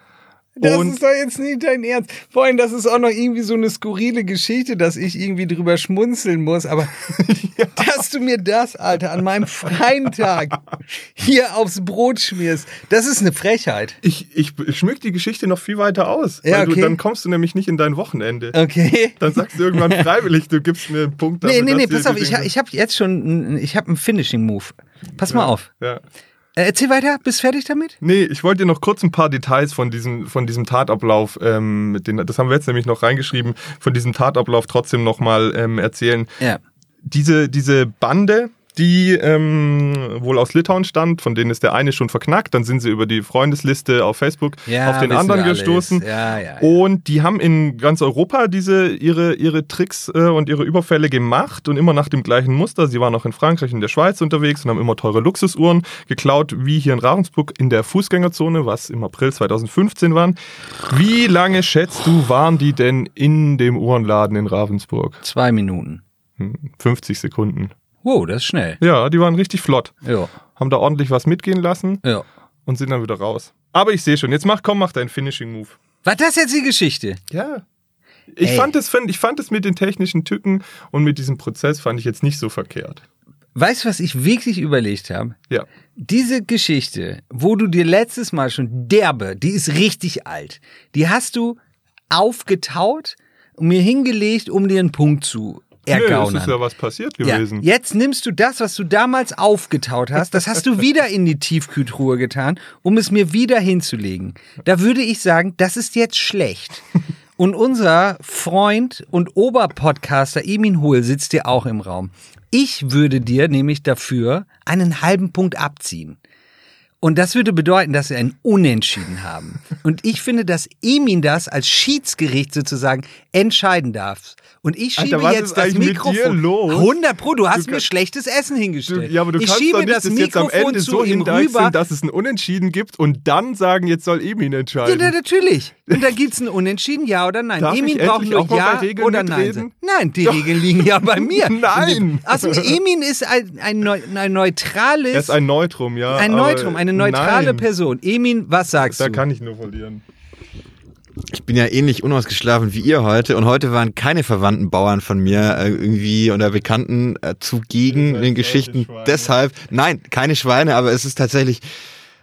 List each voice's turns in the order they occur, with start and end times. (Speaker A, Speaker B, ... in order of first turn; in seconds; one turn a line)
Speaker A: 0.6-7.2
Speaker B: 0.6-1.0
Speaker B: 7.1-7.9
Speaker A: 7.8-14.0
Speaker B: 14.0-18.6
Speaker A: 16.4-17.0
Speaker A: 18.5-20.1
Speaker B: 19.2-22.5
Speaker A: 21.4-25.7
Speaker B: 25.2-26.0
Speaker A: 26.6-28.0
Speaker B: 28.0-36.3
Speaker B: 37.0-46.0
Speaker A: 44.7-46.7
Speaker B: 46.6-65.2
Speaker A: 65.2-66.0
Speaker B: 66.4-67.7
Speaker A: 68.0-68.8
Speaker B: 68.8-70.0
Speaker A: 70.0-70.3
Speaker B: 70.6-72.0
Speaker B: 72.7-75.8
Speaker A: 76.0-77.2
Speaker B: 77.3-77.6
Speaker B: 78.3-83.0
Speaker A: 78.4-78.7
Speaker A: 83.5-85.3
Speaker A: 85.9-91.6
Speaker A: 92.1-96.6
Speaker B: 95.9-97.7
Speaker A: 97.2-106.8
Speaker A: 107.4-116.2
Speaker A: 117.0-131.7
Speaker B: 125.0-127.0
Speaker B: 127.5-127.8
Speaker B: 128.9-135.1
Speaker A: 134.8-145.4
Speaker B: 137.6-139.7
Speaker B: 140.2-142.8
Speaker B: 145.1-147.7
Speaker A: 146.1-149.2
Speaker B: 148.9-150.0
Speaker C: 151.3-161.6
Speaker B: 157.9-159.3